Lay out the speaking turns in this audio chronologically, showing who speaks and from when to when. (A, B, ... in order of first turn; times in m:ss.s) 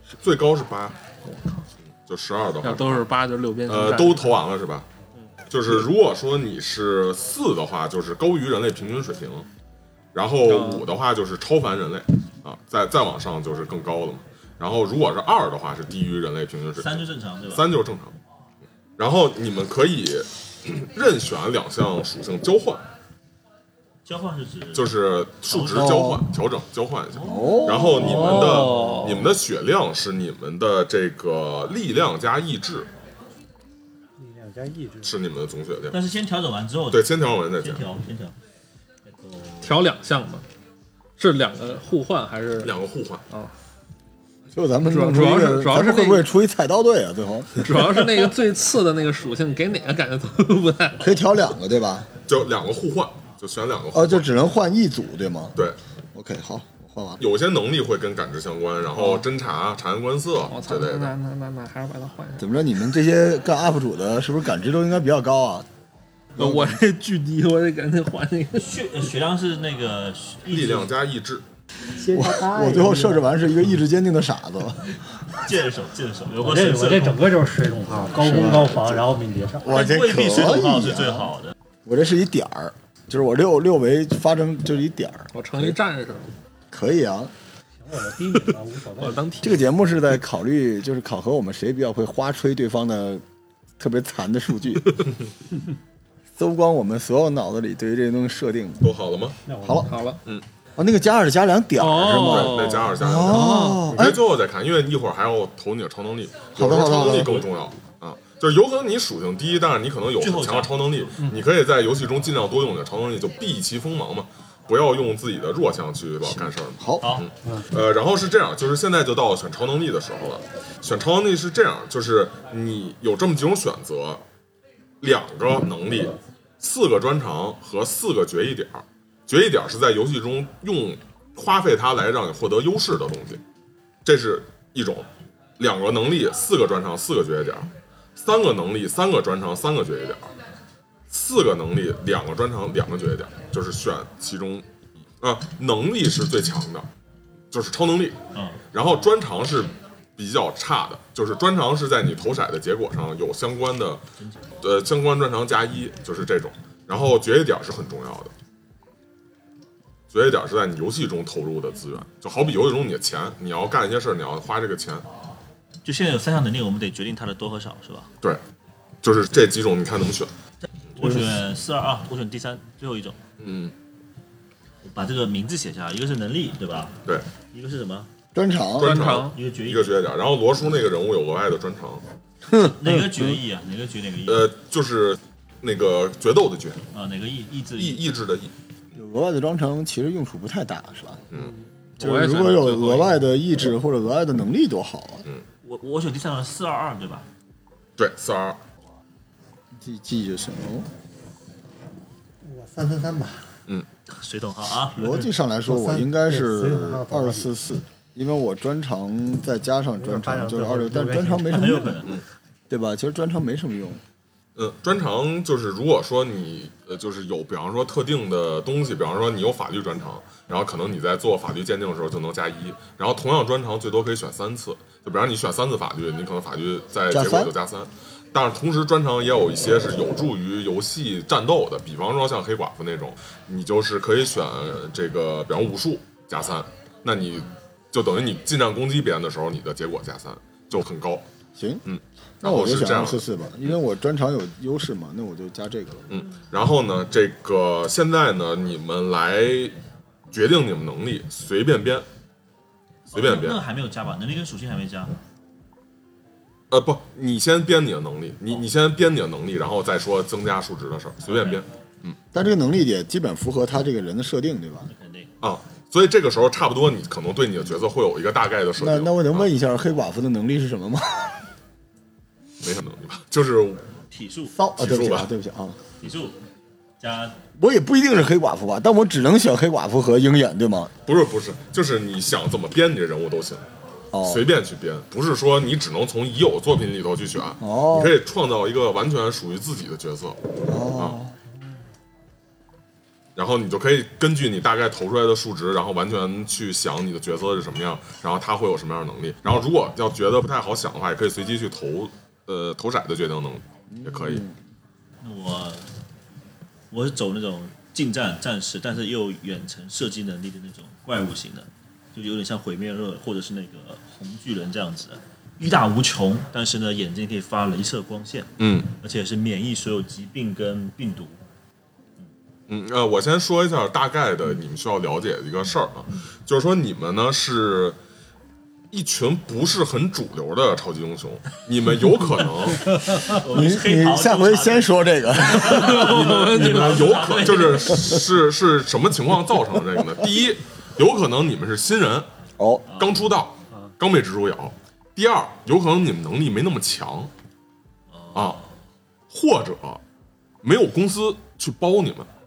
0:00.2-0:01.0 A
0:01.3-0:01.7 B
0:02.1-0:03.0 A
0:02.6-0:04.4 B
0:03.7-0:04.9 A
0:05.5-0:09.5 A
0:10.1-0:18.2 A
0:10.5-0:10.8 B
0:16.8-0:17.7 C
0:19.0-0:22.8 A
0:24.0-0:24.9 C
0:24.8-0:32.9 A
0:25.5-0:26.1 C
0:25.7-0:26.3 D
0:27.1-0:27.7 C
0:27.2-0:28.6 D
0:28.0-0:29.3 B
0:34.2-0:35.1 E
0:35.0-0:36.0 A
0:35.9-0:38.4 C
0:36.9-0:37.8 A
0:39.1-0:39.8 C
0:39.6-0:40.4 B
0:41.2-0:42.7 B
0:42.6-0:43.2 A
0:44.5-0:48.0 D
0:44.9-0:46.3 B
0:47.6-0:51.2 B
0:51.0-0:52.1 D
0:52.3-0:54.3 A
0:53.9-0:55.6 D
0:56.1-0:57.2 D
0:57.2-1:01.1 A
1:00.5-1:02.5 B
1:02.4-1:05.7 D
1:06.4-1:06.8 D
1:06.4-1:08.7 B
1:08.6-1:10.9 C
1:10.5-1:11.4 A
1:12.0-1:13.4 E
1:12.1-1:15.0 D
1:15.4-1:17.2 C
1:16.4-1:19.8 E
1:18.2-1:19.1 D
1:19.6-1:21.3 D
1:19.7-1:21.6 C
1:21.8-1:25.8 D
1:25.3-1:26.3 B
1:26.7-1:27.3 D
1:27.8-1:29.3 E
1:29.0-1:29.6 B
1:29.4-1:33.2 D
1:33.8-1:35.0 D
1:36.4-1:38.9 D
1:38.8-1:39.4 A
1:39.5-1:39.9 E
1:39.6-1:39.9 D
1:39.9-1:40.2 B
1:40.8-1:44.2 D
1:41.8-1:44.0 B
1:42.0-2:04.2 A
1:46.6-1:47.4 D
1:50.2-1:51.3 C
1:56.3-1:57.2 D
1:57.0-1:57.3 C
1:57.4-1:57.7 E
2:05.0-2:13.4 A
2:14.0-2:15.1 A
2:15.6-2:20.3 A
2:21.1-2:24.7 A
2:25.2-2:26.9 A
2:27.5-2:28.2 A
2:28.3-2:28.6 C
2:28.7-2:34.0 A
2:34.6-2:38.3 A
2:40.1-2:45.0 A
2:45.8-2:48.1 C
2:49.0-2:50.3 A
2:50.9-2:53.2 C
2:53.4-2:53.7 A
2:54.8-2:58.1 C
2:58.3-2:59.0 D
2:58.8-3:02.0 A
2:58.8-2:59.4 B
2:59.2-2:59.9 C
3:02.5-3:03.4 D
3:02.6-3:04.5 C
3:04.3-3:06.8 A
3:06.9-3:08.0 C
3:07.8-3:08.5 A
3:08.9-3:11.2 D
3:12.0-3:13.2 B
3:12.0-3:15.2 D
3:15.6-3:17.3 C
3:18.0-3:18.6 A
3:19.8-3:20.9 D
3:22.4-3:23.5 E
3:24.1-3:25.2 C
3:25.0-3:32.1 D
3:25.7-3:27.5 E
3:30.0-3:32.0 E
3:31.5-3:32.2 C
3:32.7-3:34.0 D
3:34.6-4:01.2 A
3:47.1-3:47.5 D
4:01.6-4:01.8 D
4:01.9-4:03.2 A
4:02.4-4:06.2 D
4:06.1-4:09.8 A
4:10.3-4:12.1 A
4:13.1-4:15.2 C
4:13.1-4:13.6 A
4:16.7-4:22.2 A
4:21.3-4:21.6 C
4:22.3-4:24.9 D
4:24.9-4:25.3 C
4:25.4-4:29.5 A
4:28.8-4:31.4 D
4:32.6-4:33.8 A
4:34.1-4:34.6 C
4:34.5-4:35.8 D
4:34.8-4:35.3 A
4:36.0-4:36.4 C
4:37.0-4:37.4 C
4:37.6-4:40.9 D
4:41.1-4:43.6 A
4:44.1-4:44.5 D
4:44.2-4:50.4 A
4:47.6-4:48.2 D
4:50.6-4:51.3 D
4:53.4-5:04.4 A
5:03.9-5:04.6 D
5:05.2-5:05.9 C
5:06.9-5:21.4 C
5:18.6-5:18.9 A
5:22.7-5:28.0 A
5:28.9-5:32.9 A
5:33.1-5:36.1 D
5:33.1-5:38.1 C
5:35.7-5:37.4 B
5:36.4-5:42.3 A
5:37.9-5:38.3 D
5:42.6-5:42.8 D
5:42.9-5:43.2 C
5:43.0-5:47.3 A
5:48.1-5:48.7 C
5:48.3-5:48.6 A
5:49.3-5:50.0 A
5:50.6-5:52.3 A